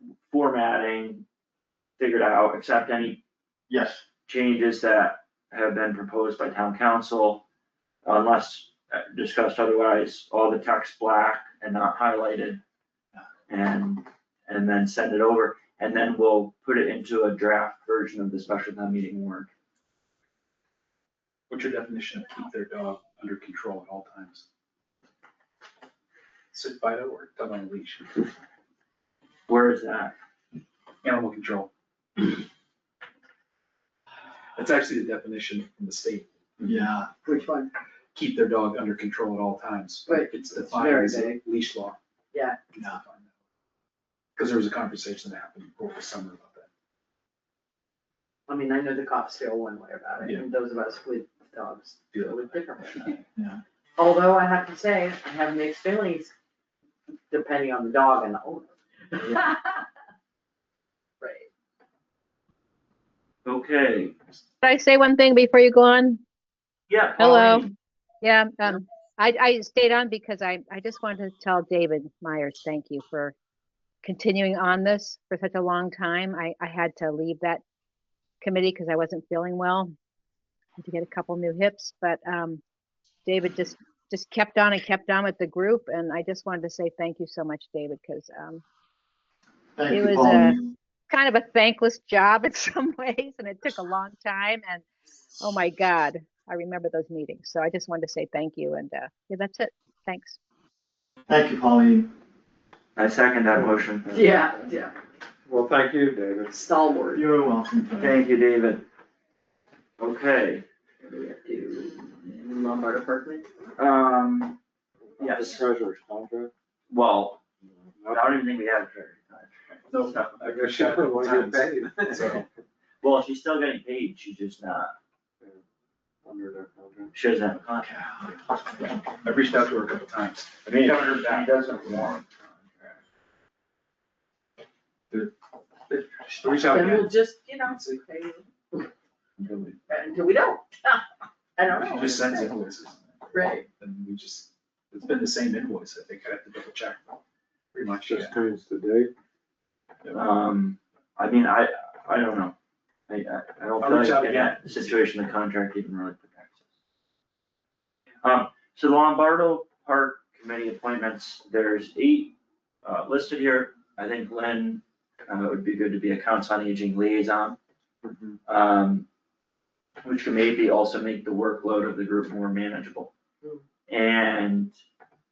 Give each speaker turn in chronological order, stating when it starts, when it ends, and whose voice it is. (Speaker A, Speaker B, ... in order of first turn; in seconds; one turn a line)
Speaker A: 0.3-1.2
Speaker A: 2.0-3.2
Speaker B: 3.7-4.0
Speaker A: 4.3-7.4
Speaker A: 8.0-12.6
Speaker A: 13.5-19.5
Speaker C: 21.5-24.4
Speaker C: 26.5-28.3
Speaker A: 29.5-30.1
Speaker C: 31.0-32.3
Speaker C: 34.5-37.1
Speaker B: 36.6-36.9
Speaker D: 37.2-37.7
Speaker C: 38.1-42.0
Speaker D: 40.0-41.4
Speaker D: 42.3-42.6
Speaker C: 42.7-43.3
Speaker C: 44.4-46.7
Speaker D: 48.5-53.2
Speaker C: 50.2-50.5
Speaker C: 52.1-53.6
Speaker D: 54.0-56.3
Speaker D: 57.3-59.8
Speaker D: 61.2-61.5
Speaker A: 63.4-64.1
Speaker E: 64.6-66.2
Speaker A: 66.9-67.7
Speaker E: 67.2-67.7
Speaker E: 68.2-73.3
Speaker E: 74.0-77.6
Speaker E: 78.4-79.9
Speaker E: 80.8-82.6
Speaker E: 83.2-88.6
Speaker B: 89.8-90.7
Speaker E: 89.9-90.6
Speaker E: 91.1-94.8
Speaker E: 95.4-100.4
Speaker B: 101.3-102.1
Speaker A: 103.0-104.1
Speaker F: 103.5-104.7
Speaker D: 104.1-104.9
Speaker F: 105.5-106.6
Speaker D: 106.5-107.2
Speaker B: 107.1-108.2
Speaker A: 108.0-108.8
Speaker A: 110.0-110.7
Speaker D: 111.0-113.4
Speaker A: 113.8-114.6
Speaker F: 115.2-116.5
Speaker A: 115.2-115.6
Speaker A: 116.9-117.4
Speaker F: 118.0-118.4
Speaker A: 118.1-120.9
Speaker F: 120.4-122.5
Speaker C: 120.7-122.4
Speaker A: 123.0-124.9
Speaker F: 126.2-127.1
Speaker A: 127.1-127.9
Speaker C: 127.8-128.4
Speaker C: 129.2-131.5
Speaker A: 130.6-133.0
Speaker C: 135.9-137.1
Speaker D: 136.7-138.9
Speaker C: 137.6-137.9
Speaker A: 139.4-139.7
Speaker D: 139.9-141.0
Speaker D: 141.6-142.5
Speaker C: 141.7-147.2
Speaker D: 143.3-143.7
Speaker C: 147.7-148.4
Speaker F: 148.1-149.1
Speaker A: 150.1-152.5
Speaker A: 153.1-156.5
Speaker C: 153.8-154.9
Speaker A: 158.2-167.6
Speaker F: 168.0-168.3
Speaker A: 168.5-169.1
Speaker A: 170.0-173.1
Speaker A: 173.9-174.8